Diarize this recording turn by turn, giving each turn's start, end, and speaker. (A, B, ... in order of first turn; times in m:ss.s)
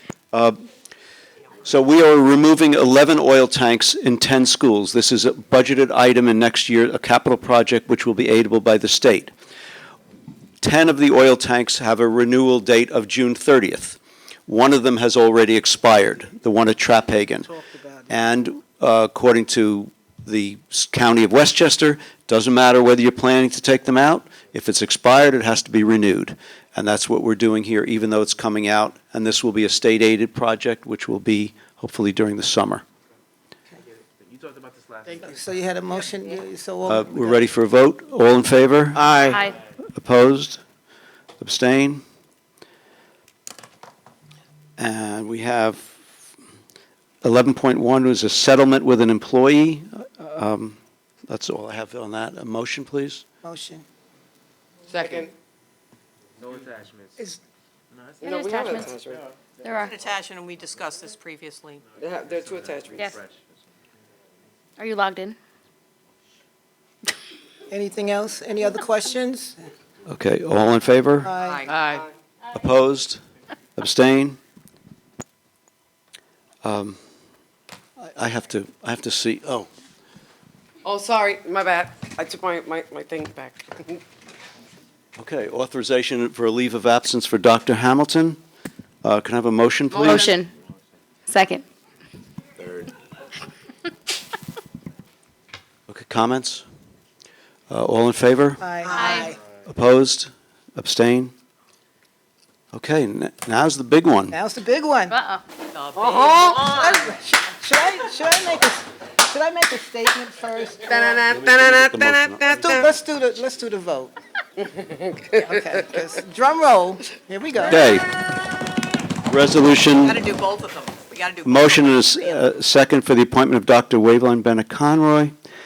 0:00.3-0:00.6 A
0:01.6-0:09.3 A
0:10.6-0:17.5 A
0:17.5-0:18.1 B
0:18.1-0:32.8 A
0:34.3-0:35.3 C
0:35.2-0:37.4 B
0:36.9-0:40.6 A
0:39.2-0:39.6 D
0:41.4-0:42.0 A
0:44.8-0:45.9 A
0:47.2-0:53.2 A
0:53.4-0:53.8 B
0:54.9-0:55.3 E
0:56.4-0:57.1 C
0:58.0-0:58.3 C
0:58.2-0:59.2 E
0:58.2-0:58.9 D
0:59.6-1:00.0 D
0:59.8-1:01.8 F
1:02.0-1:03.2 E
1:02.1-1:03.3 C
1:04.8-1:05.4 D
1:07.7-1:09.6 B
1:10.1-1:11.3 A
1:11.2-1:11.7 B
1:11.4-1:12.0 F
1:12.5-1:13.2 A
1:13.8-1:14.4 A
1:16.6-1:17.0 A
1:18.0-1:19.7 A
1:20.8-1:24.0 E
1:25.2-1:28.4 A
1:29.0-1:30.3 A
1:29.9-1:30.5 D
1:31.3-1:31.6 D
1:35.9-1:36.6 A
1:37.7-1:38.7 A
1:38.6-1:39.4 B
1:38.9-1:39.4 D
1:39.6-1:41.3 A
1:42.7-1:44.4 A
1:44.3-1:45.2 B
1:45.1-1:45.4 D
1:45.7-1:47.2 F
1:46.0-1:46.7 E
1:46.5-1:50.9 B
1:50.8-1:52.8 E
1:51.3-1:52.9 A
1:52.5-1:54.1 B
1:54.8-1:55.5 E
1:55.4-1:57.9 B
1:57.6-1:58.1 A
1:59.3-2:00.2 A
2:00.0-2:02.4 F
2:01.4-2:05.3 A